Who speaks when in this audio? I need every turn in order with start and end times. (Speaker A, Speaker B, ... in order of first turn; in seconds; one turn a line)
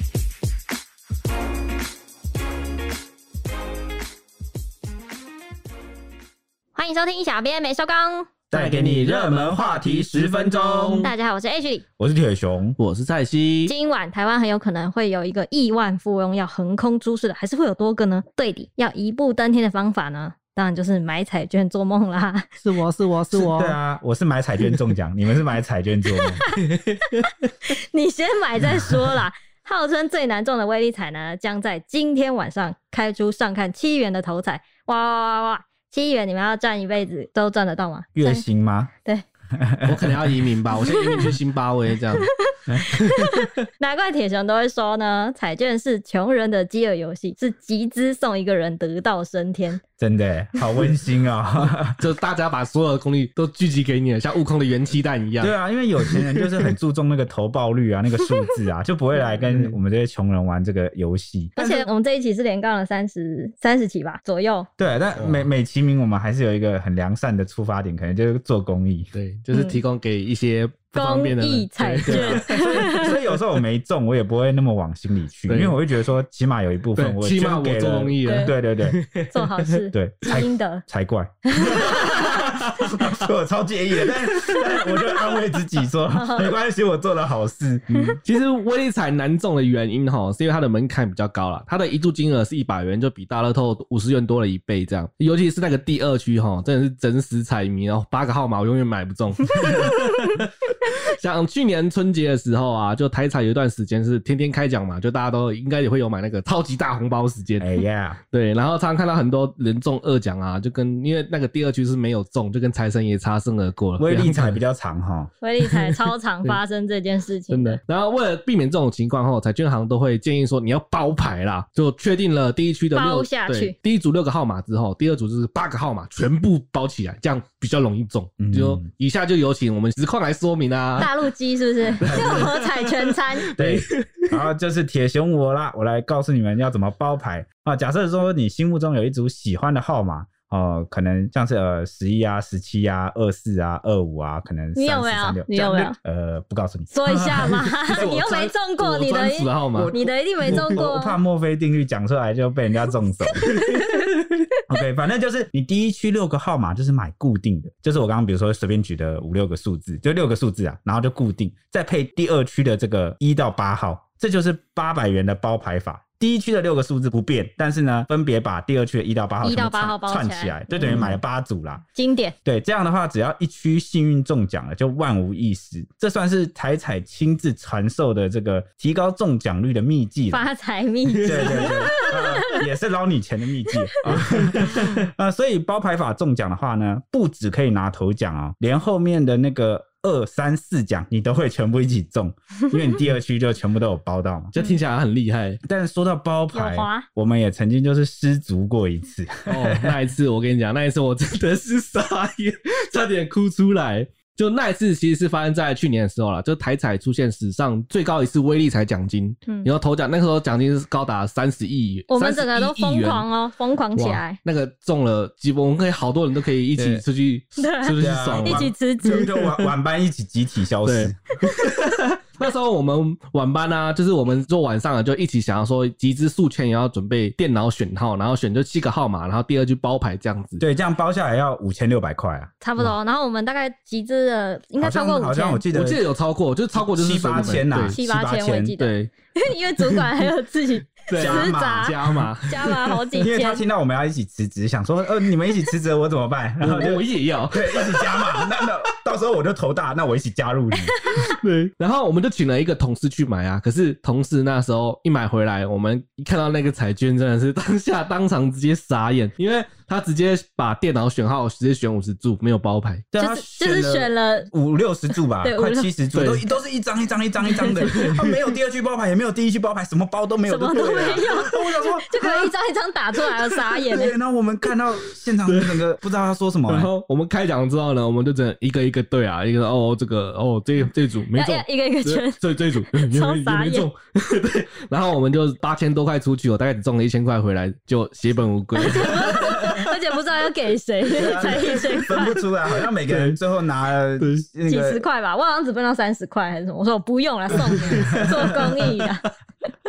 Speaker A: 6.7-8.3
Speaker B: 8.5-11.1
Speaker C: 8.5-11.1
Speaker A: 11.0-11.8
Speaker B: 12.0-12.8
Speaker C: 12.8-13.7
Speaker A: 13.7-22.5
Speaker C: 22.6-23.8
Speaker B: 23.3-26.4
Speaker C: 26.5-27.3
Speaker A: 27.7-38.5
Speaker B: 38.1-38.9
Speaker B: 39.5-40.4
Speaker C: 39.8-42.3
Speaker A: 40.9-41.2
Speaker A: 42.1-49.8
Speaker C: 42.9-43.5
Speaker B: 50.0-52.0
Speaker C: 52.0-56.7
Speaker B: 55.4-61.9
Speaker C: 59.4-59.8
Speaker A: 61.5-64.7
Speaker B: 64.8-69.1
Speaker C: 65.1-65.5
Speaker C: 69.1-73.0
Speaker A: 69.5-69.8
Speaker A: 70.9-73.1
Speaker B: 72.0-79.0
Speaker C: 75.5-75.8
Speaker C: 77.0-79.7
Speaker A: 78.2-78.5
Speaker A: 79.3-80.8
Speaker B: 79.9-88.2
Speaker A: 81.5-82.1
Speaker C: 81.7-82.5
Speaker C: 84.1-84.6
Speaker A: 86.1-86.5
Speaker A: 87.9-88.2
Speaker C: 88.2-114.6
Speaker B: 107.6-108.2
Speaker B: 114.0-115.3
Speaker A: 115.4-117.8
Speaker C: 115.6-116.6
Speaker C: 117.5-131.1
Speaker A: 122.9-123.7
Speaker B: 128.4-128.8
Speaker A: 131.0-133.5
Speaker C: 132.0-134.4
Speaker B: 132.0-132.5
Speaker B: 133.6-148.1
Speaker A: 144.7-145.9
Speaker A: 146.9-151.2
Speaker C: 147.4-149.9
Speaker B: 149.7-153.5
Speaker C: 150.4-150.8
Speaker C: 153.4-154.3
Speaker A: 153.4-154.1
Speaker B: 154.7-171.8
Speaker A: 169.4-171.1
Speaker C: 170.8-171.1
Speaker A: 171.9-172.3
Speaker B: 172.4-180.4
Speaker A: 180.3-182.6
Speaker C: 181.1-182.6
Speaker B: 181.2-194.5
Speaker C: 184.0-185.0
Speaker C: 194.5-195.6
Speaker B: 195.6-199.9
Speaker A: 196.5-197.1
Speaker C: 199.5-213.3
Speaker A: 212.1-214.4
Speaker C: 213.9-219.7
Speaker B: 216.8-217.0
Speaker A: 217.6-219.3
Speaker B: 217.9-221.2
Speaker C: 220.8-230.6
Speaker B: 230.6-232.9
Speaker A: 232.6-235.6
Speaker B: 234.8-236.0
Speaker C: 235.7-238.0
Speaker B: 236.8-238.8
Speaker A: 237.9-243.6
Speaker C: 238.8-239.1
Speaker C: 239.8-240.2
Speaker C: 241.0-243.1
Speaker B: 241.2-242.2
Speaker B: 243.2-250.9
Speaker C: 246.6-248.8
Speaker A: 250.8-251.2
Speaker C: 251.2-263.0
Speaker B: 263.1-272.5
Speaker A: 263.2-264.5
Speaker A: 265.4-265.9
Speaker C: 266.1-266.5
Speaker A: 267.4-268.1
Speaker C: 267.9-268.4
Speaker A: 270.4-274.2
Speaker B: 273.9-276.9
Speaker C: 275.0-275.8
Speaker C: 276.7-289.9
Speaker A: 281.3-283.9
Speaker A: 288.8-292.4
Speaker B: 289.4-289.7
Speaker B: 291.1-295.1
Speaker C: 291.6-293.4
Speaker C: 294.2-294.4
Speaker A: 294.7-299.3
Speaker C: 297.6-299.1